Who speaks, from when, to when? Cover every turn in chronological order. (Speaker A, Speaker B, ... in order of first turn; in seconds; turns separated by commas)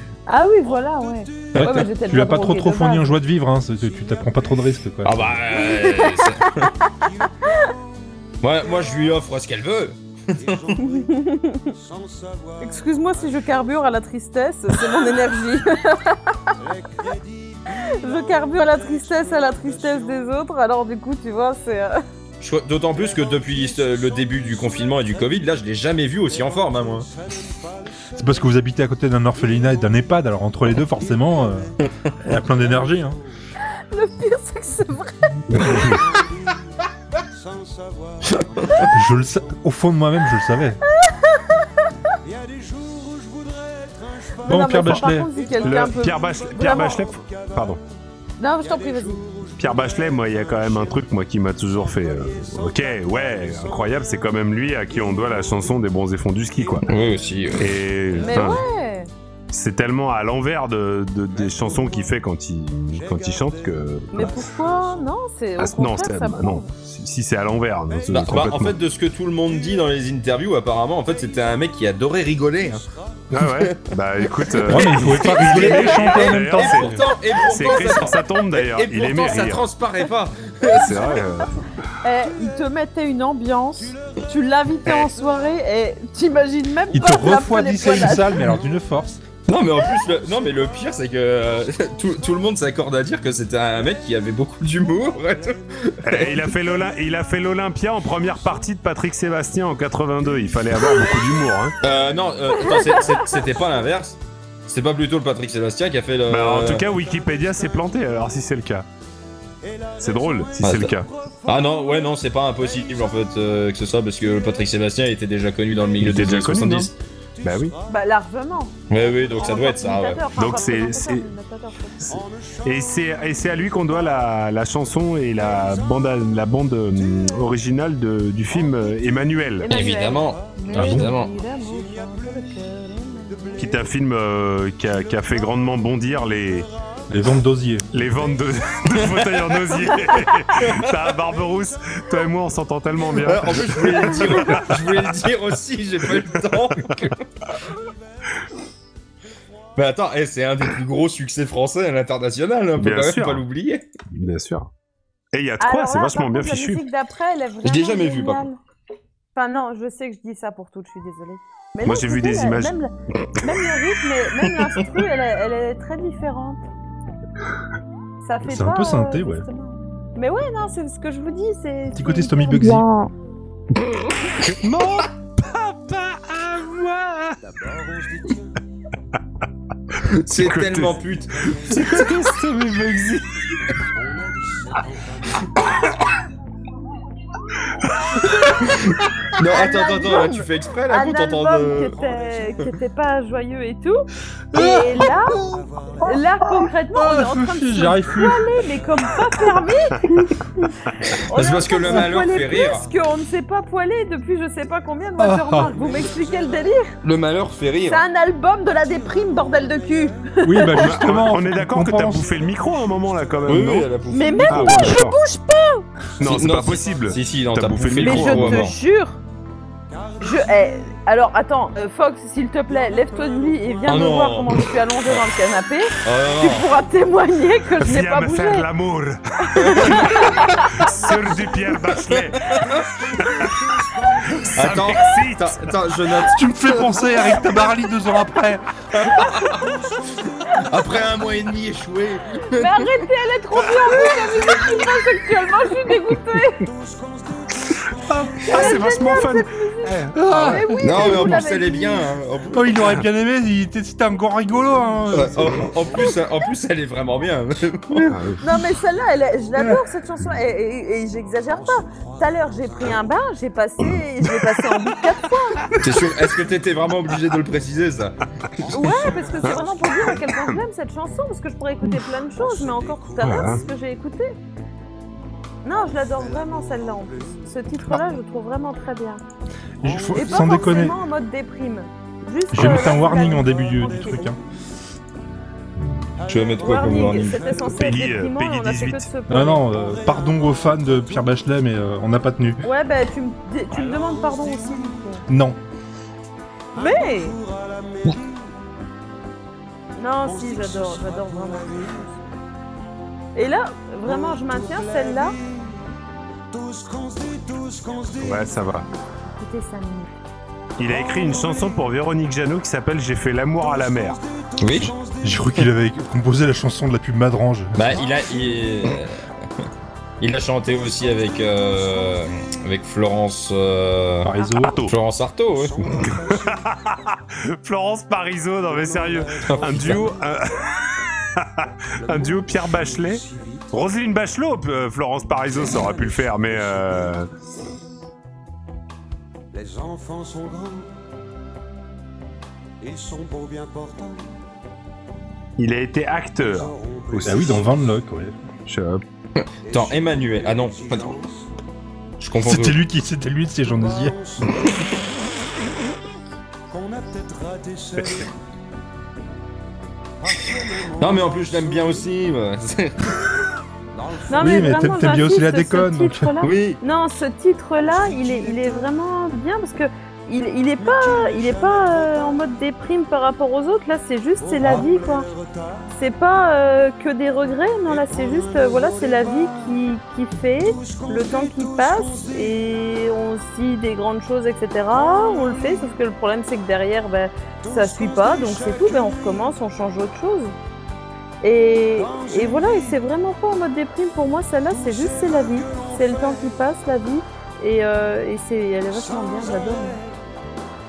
Speaker A: 0.3-3.1, Speaker B: 0.7-2.5, Speaker C: 1.5-1.9, Speaker D: 1.6-5.5, Speaker B: 3.5-9.2, Speaker C: 5.0-6.7, Speaker A: 5.5-6.8, Speaker C: 8.4-10.8, Speaker B: 10.3-13.5, Speaker A: 10.8-11.7, Speaker A: 12.6-16.6, Speaker B: 16.6-20.4, Speaker A: 17.9-22.0, Speaker C: 22.4-27.1, Speaker B: 22.9-25.5, Speaker B: 26.3-28.6, Speaker D: 28.1-33.2, Speaker B: 29.4-30.2, Speaker B: 30.8-33.3, Speaker A: 33.6-35.6, Speaker E: 35.5-36.0, Speaker B: 35.5-39.6, Speaker D: 38.9-40.8, Speaker A: 40.9-41.9, Speaker B: 42.2-47.8, Speaker A: 44.4-47.1, Speaker D: 44.5-45.3, Speaker E: 45.6-47.8, Speaker A: 48.4-49.3, Speaker B: 48.6-55.8, Speaker E: 49.6-56.9, Speaker B: 56.6-57.4, Speaker C: 56.9-58.4, Speaker E: 57.6-58.6, Speaker B: 58.1-58.6, Speaker A: 58.2-59.1, Speaker E: 59.5-64.5, Speaker B: 61.3-62.2, Speaker B: 62.9-65.1, Speaker A: 64.1-66.7, Speaker E: 65.6-68.8, Speaker C: 68.1-72.8, Speaker B: 71.1-71.6, Speaker B: 72.6-73.3, Speaker E: 73.3-79.7, Speaker C: 73.4-73.9, Speaker C: 74.6-81.0, Speaker D: 74.7-77.1, Speaker E: 80.7-81.7, Speaker A: 80.7-88.6, Speaker B: 82.1-82.6, Speaker B: 84.0-84.2, Speaker B: 85.1-85.5, Speaker D: 86.9-89.2, Speaker C: 89.5-96.5, Speaker B: 89.9-90.8, Speaker B: 95.1-97.0, Speaker E: 96.0-101.8, Speaker C: 101.8-106.9, Speaker B: 102.5-104.0, Speaker A: 102.6-103.3, Speaker E: 106.3-108.9, Speaker B: 107.0-108.2, Speaker B: 109.6-113.6, Speaker E: 110.0-111.1, Speaker C: 110.6-111.0, Speaker C: 111.5-116.9, Speaker B: 114.2-114.7, Speaker E: 116.0-117.8, Speaker B: 117.4-118.2, Speaker A: 117.9-118.8, Speaker C: 118.9-120.3, Speaker B: 119.0-119.6, Speaker A: 119.3-122.2, Speaker E: 120.3-121.3, Speaker E: 122.0-129.7, Speaker B: 122.1-124.4, Speaker B: 125.3-127.6, Speaker B: 128.5-132.7, Speaker A: 129.6-133.8, Speaker C: 129.7-131.3, Speaker D: 130.7-131.1, Speaker B: 133.3-134.0, Speaker E: 133.6-136.7, Speaker B: 135.1-137.4, Speaker D: 137.1-137.9, Speaker E: 137.9-145.1, Speaker B: 138.0-139.0, Speaker C: 139.0-139.4, Speaker C: 140.5-141.0, Speaker C: 143.2-147.2, Speaker E: 146.8-147.1, Speaker C: 149.8-153.8, Speaker E: 152.8-153.4, Speaker E: 154.1-154.7, Speaker E: 155.3-156.9, Speaker A: 155.6-158.6, Speaker C: 157.7-158.5, Speaker A: 159.3-166.6, Speaker E: 161.8-162.8, Speaker A: 168.2-173.1, Speaker D: 168.4-169.5, Speaker D: 171.9-172.9, Speaker E: 174.4-177.4, Speaker B: 177.4-178.6, Speaker C: 180.1-182.1, Speaker E: 180.3-181.0, Speaker B: 180.8-182.4, Speaker E: 181.7-183.7, Speaker B: 183.9-185.7, Speaker C: 188.6-191.9, Speaker A: 189.4-194.0, Speaker B: 191.8-192.7, Speaker D: 194.5-194.9, Speaker A: 194.5-195.4, Speaker B: 195.3-196.3, Speaker A: 196.0-207.0, Speaker D: 196.6-198.5, Speaker C: 201.3-202.9, Speaker D: 205.2-205.7, Speaker B: 205.5-206.8, Speaker C: 207.0-208.0, Speaker A: 207.9-211.0, Speaker B: 208.5-213.8, Speaker D: 210.4-212.3, Speaker E: 210.7-213.9, Speaker C: 213.4-215.0, Speaker A: 214.1-215.9, Speaker E: 214.5-215.2, Speaker E: 216.2-218.7, Speaker B: 216.2-217.1, Speaker C: 216.2-218.8, Speaker A: 218.0-219.2, Speaker B: 219.9-221.0, Speaker A: 220.2-228.7, Speaker B: 222.7-224.7, Speaker C: 223.9-225.2, Speaker C: 226.0-226.7, Speaker E: 227.8-232.5, Speaker A: 229.4-230.7, Speaker C: 229.7-230.6, Speaker B: 230.0-235.0, Speaker C: 232.1-232.9, Speaker E: 234.4-235.7, Speaker C: 234.5-237.0, Speaker D: 236.3-238.6, Speaker B: 237.1-237.9, Speaker C: 238.9-239.6, Speaker B: 239.2-241.3, Speaker C: 240.6-242.9, Speaker A: 242.5-246.7, Speaker B: 243.8-245.1, Speaker B: 246.6-249.0, Speaker E: 248.0-250.3, Speaker A: 248.5-252.1, Speaker D: 250.1-251.3, Speaker C: 250.8-253.0, Speaker D: 252.5-255.7, Speaker B: 255.1-256.2, Speaker C: 255.1-258.1, Speaker E: 258.0-258.5, Speaker A: 258.4-265.9, Speaker B: 261.4-263.1, Speaker E: 263.9-264.9, Speaker C: 265.8-268.2, Speaker B: 268.6-270.3, Speaker A: 268.7-274.4, Speaker E: 269.4-270.6, Speaker B: 272.3-273.7, Speaker E: 273.2-273.6, Speaker A: 275.6-279.2, Speaker B: 275.7-277.6, Speaker D: 279.8-281.0, Speaker B: 279.8-280.9, Speaker A: 280.1-284.3, Speaker D: 282.5-284.4, Speaker B: 282.5-284.4, Speaker B: 286.2-288.2, Speaker C: 286.3-287.6, Speaker A: 286.6-289.7, Speaker E: 287.7-289.1, Speaker D: 289.3-292.6, Speaker B: 289.4-291.4, Speaker A: 292.6-295.2, Speaker B: 293.7-295.2, Speaker D: 295.3-295.6, Speaker B: 296.8-298.6, Speaker A: 296.8-297.4, Speaker A: 300.0-301.9, Speaker B: 300.2-302.2, Speaker A: 303.4-305.4, Speaker B: 304.1-305.9, Speaker B: 306.5-308.7, Speaker E: 308.2-308.9, Speaker A: 309.3-310.1, Speaker E: 310.8-314.2, Speaker B: 310.8-311.9, Speaker B: 313.6-315.6, Speaker C: 314.6-314.9, Speaker D: 315.2-318.0, Speaker C: 317.7-319.2, Speaker B: 318.0-318.7, Speaker C: 320.2-325.9, Speaker D: 324.2-324.8, Speaker E: 324.6-324.9, Speaker B: 325.5-326.8, Speaker E: 326.0-337.3, Speaker B: 328.6-330.2, Speaker C: 329.5-330.0, Speaker B: 332.0-333.7, Speaker B: 335.5-337.2, Speaker B: 339.5-341.0, Speaker B: 342.8-344.4, Speaker E: 345.6-347.6, Speaker B: 346.4-347.9, Speaker D: 347.2-348.4, Speaker E: 348.6-349.0, Speaker C: 349.4-351.2, Speaker B: 349.7-351.5, Speaker C: 352.2-352.8, Speaker D: 352.4-354.2, Speaker B: 353.6-354.8, Speaker B: 356.7-358.3, Speaker B: 360.2-362.1, Speaker C: 361.0-363.3, Speaker B: 363.9-365.0, Speaker A: 364.3-375.3, Speaker D: 364.4-366.3, Speaker C: 366.4-366.8, Speaker B: 367.8-368.9, Speaker B: 370.8-372.4, Speaker B: 374.4-375.9, Speaker D: 374.6-374.9, Speaker A: 375.9-390.6, Speaker B: 377.9-379.8, Speaker B: 380.6-382.8, Speaker B: 384.9-386.0, Speaker B: 387.6-389.6, Speaker A: 391.4-400.0, Speaker B: 392.0-393.0, Speaker B: 394.7-396.6, Speaker B: 398.9-400.2